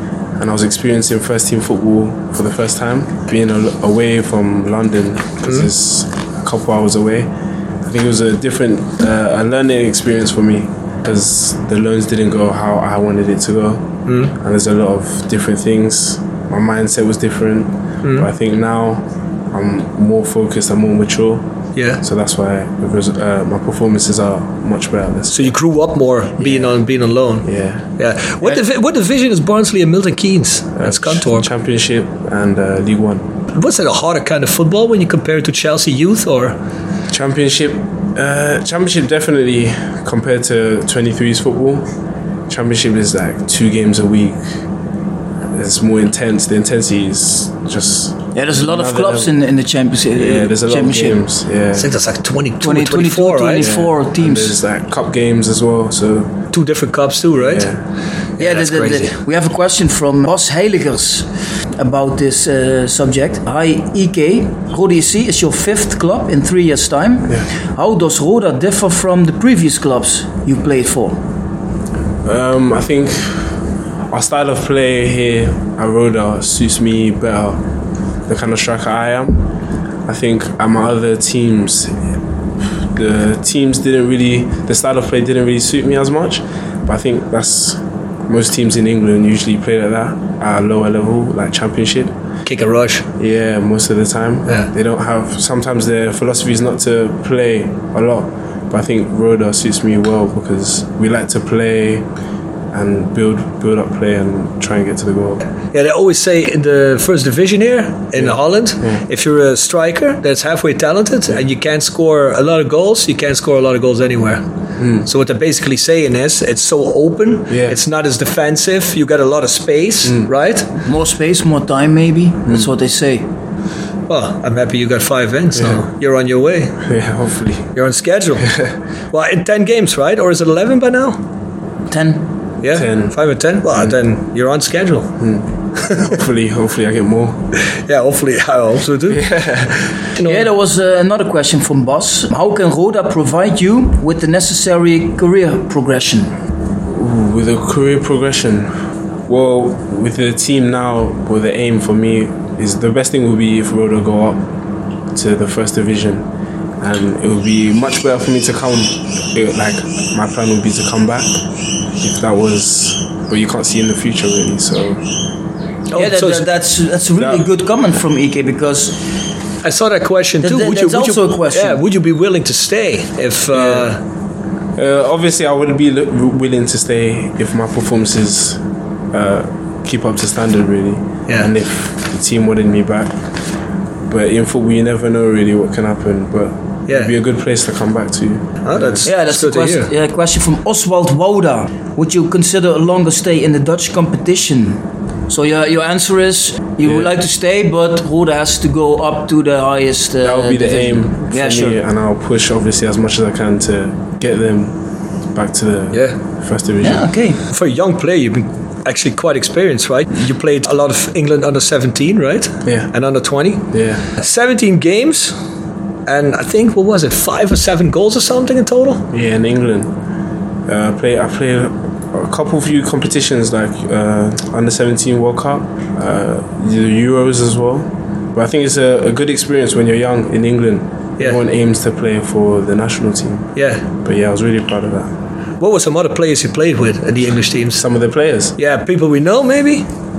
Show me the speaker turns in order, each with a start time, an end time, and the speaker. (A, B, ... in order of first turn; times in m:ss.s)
0:00.4-0:07.3 A
0:07.8-0:21.5 A
0:14.1-0:14.3 B
0:21.8-0:22.0 B
0:22.0-0:25.5 A
0:25.3-0:31.5 B
0:26.4-0:26.7 A
0:27.4-0:27.8 A
0:30.8-0:33.3 A
0:33.5-0:36.6 B
0:37.1-0:41.9 A
0:42.5-0:44.5 A
0:45.5-0:49.3 A
0:48.4-0:51.2 C
0:50.1-0:51.9 A
0:51.8-0:53.7 B
0:52.6-0:54.6 C
0:53.6-0:56.3 A
0:56.5-0:57.7 B
0:57.4-0:57.8 A
0:58.4-0:59.1 B
0:58.4-1:11.2 C
1:12.2-1:13.6 A
1:14.1-1:17.6 A
1:18.3-1:19.5 A
1:20.1-1:22.1 A
1:22.8-1:32.2 A
1:32.5-1:33.1 B
1:33.2-1:42.1 A
1:42.7-1:45.4 A
1:45.7-1:54.4 B
1:48.2-1:49.0 A
1:54.8-1:55.1 A
1:55.0-2:00.7 B
1:57.5-1:57.8 A
2:00.0-2:00.3 A
2:00.8-2:03.3 C
2:04.1-2:06.8 B
2:05.6-2:05.8 A
2:06.8-2:07.7 A
2:07.8-2:08.5 B
2:09.1-2:11.2 B
2:11.9-2:12.3 C
2:12.6-2:15.2 B
2:12.7-2:13.2 A
2:15.2-2:17.5 A
2:15.8-2:16.1 B
2:17.9-2:19.4 B
2:19.1-2:19.8 A
2:20.2-2:20.5 B
2:20.2-2:26.3 C
2:26.9-2:34.5 A
2:35.1-2:36.3 A
2:36.8-2:45.1 A
2:45.9-2:46.5 B
2:45.9-2:49.1 C
2:47.2-2:47.5 A
2:49.6-2:54.0 B
2:50.4-2:51.8 C
2:53.5-2:53.9 A
2:54.8-2:58.6 A
2:59.1-3:03.2 A
3:04.1-3:09.1 A
3:06.9-3:07.1 B
3:08.6-3:09.9 B
3:09.0-3:21.8 C
3:20.2-3:24.8 A
3:25.3-3:27.1 A
3:26.8-3:27.4 C
3:27.5-3:35.4 B
3:32.6-3:32.9 A
3:33.7-3:34.0 A
3:36.1-3:39.1 B
3:39.1-3:39.9 A
3:40.7-3:55.1 A
3:53.6-3:53.8 B
3:55.6-3:57.8 B
3:57.8-3:58.6 A
3:58.6-3:59.9 B